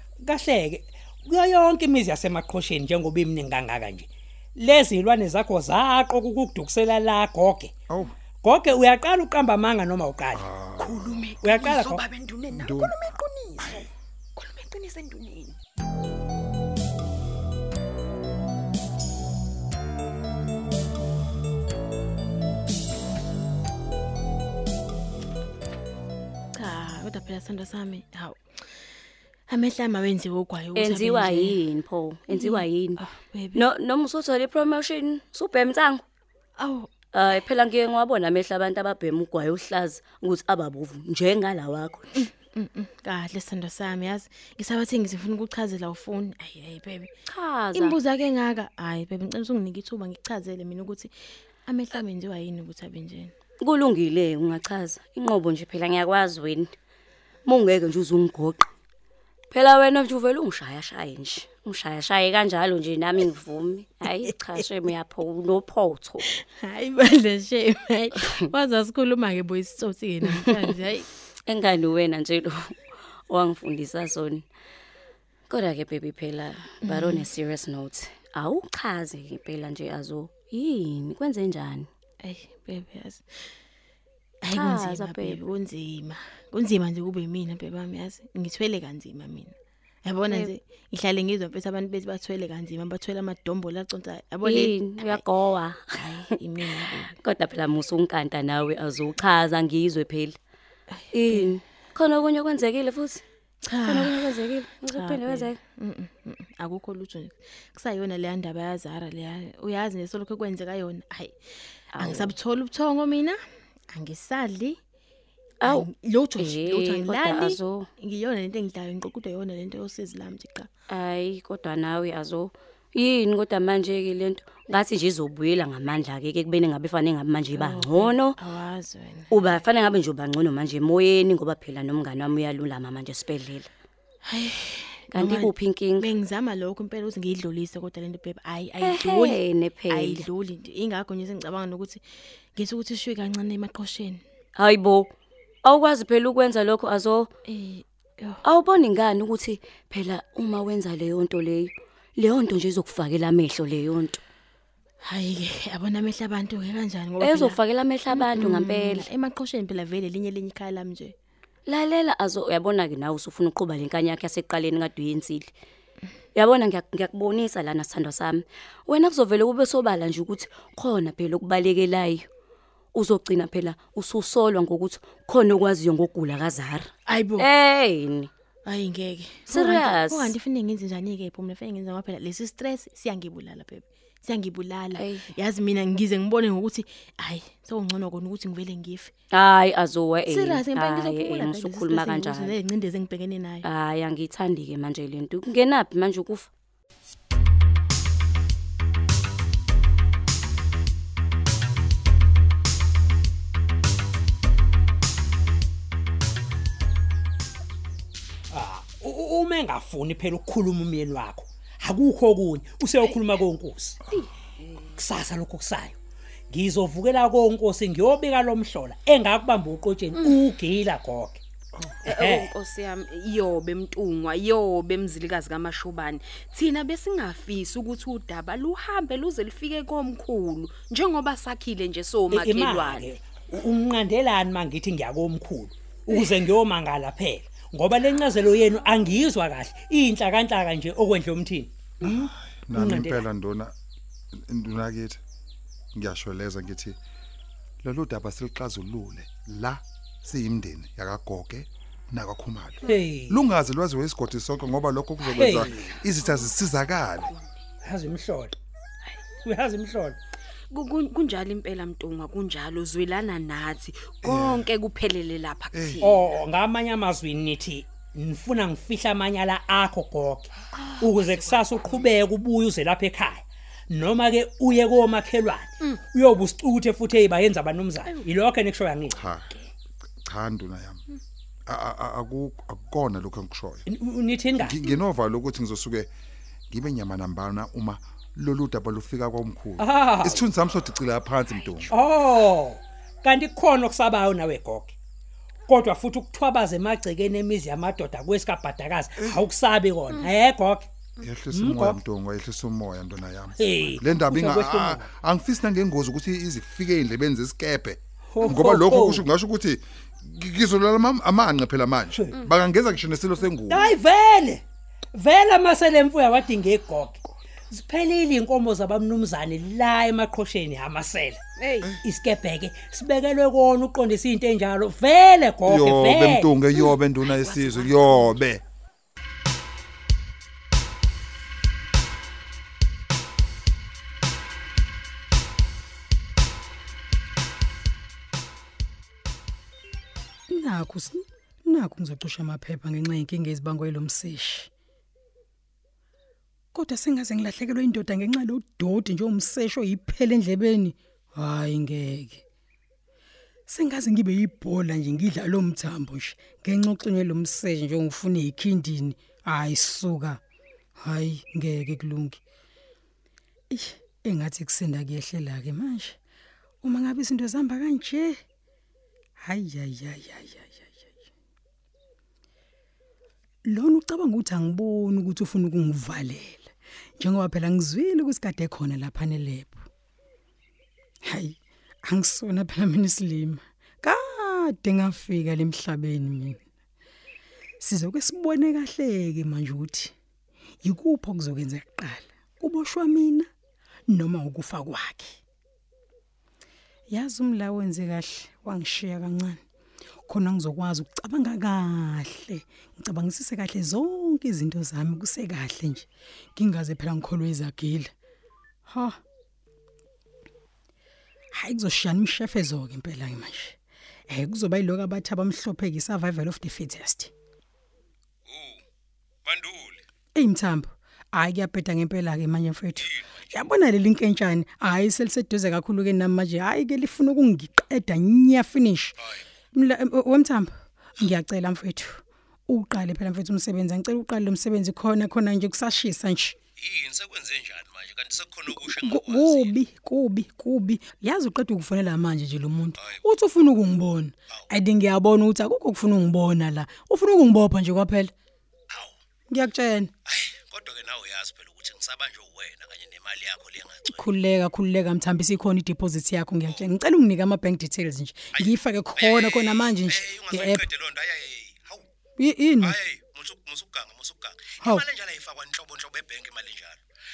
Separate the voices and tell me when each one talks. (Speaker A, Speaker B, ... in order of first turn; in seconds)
Speaker A: 0.2-7.7, 8.4-10.4, 11.4-12.0, 208.5-214.0, 215.0-216.0, 216.5-221.4, 222.1-222.5, 232.3-243.3, 252.9-253.4, 255.3-256.0, 257.8-258.6, 259.4-260.2, 266.0-279.2, 283.9-284.8, 289.8-290.5, 291.9-295.0, 295.7-300.9, 301.5-302.0, 303.6-305.1, 308.3-309.3, 313.7-321.4, 322.0-326.5
Speaker B: 7.9-8.2, 10.3-11.4, 12.5-13.9, 242.0-243.7, 244.3-245.2, 245.9-247.0, 247.8-257.3, 264.2-264.7, 265.7-266.1, 279.1-279.5, 280.2-281.0, 281.7-283.9, 284.6-286.1, 286.7-292.0, 301.2-313.9, 325.7-328.6
Speaker C: 10.8-15.6, 214.1-214.8, 222.1-233.1, 260.7-266.2, 270.8-271.7, 321.6-321.9, 326.9-328.3
Speaker D: 26.5-28.9, 29.5-31.6, 32.3-33.7, 36.6-37.5, 42.1-47.1, 47.7-51.1, 51.7-53.3, 64.2-64.9, 66.3-71.1, 76.8-77.3, 82.2-83.2, 84.4-89.5, 90.0-95.3, 95.9-97.1, 100.9-101.6, 103.6-111.4, 111.9-113.4, 113.9-114.8, 115.6-120.7, 127.5-129.6, 134.3-142.0, 142.6-144.2, 147.5-148.4, 155.0-161.1, 177.1-177.5, 178.7-189.1, 190.3-193.7
Speaker E: 30.8-33.0, 33.5-36.0, 37.1-42.2, 47.3-48.0, 53.6-56.7, 57.5-58.7, 59.5-66.2, 71.5-72.8, 73.3-74.4, 75.5-81.9, 84.5-85.4, 94.4-96.1, 96.8-100.4, 101.1-103.2, 103.8-105.6, 112.0-112.3, 116.4-117.9, 120.9-128.4, 129.3-133.7, 135.1-136.1, 138.8-140.3, 144.6-145.1, 145.6-147.3, 148.4-154.2, 157.2-159.1, 161.7-165.5, 166.3-172.3, 172.9-178.3, 179.5-180.3, 185.0-185.3, 189.3-192.6, 193.6-196.5
Speaker F: 340.5-344.7, 346.7-352.4, 353.7-360.4, 361.0-362.4, 363.7-366.2, 366.8-368.4, 369.4-371.2, 373.7-379.9, 381.2-386.6, 387.8-390.1, 390.8-393.5, 394.1-395.4, 397.1-399.6, 400.3-408.1, 408.9-409.2, 411.5-413.8, 414.3-417.3, 420.4-429.2, 429.7-436.6, 438.8-448.3, 449.5-450.1, 454.0-460.9, 462.4-463.0, 464.8-465.1
Speaker G: 419.5-419.9, 436.8-439.7, 450.3-454.1, 459.2-461.8, 462.9-466.9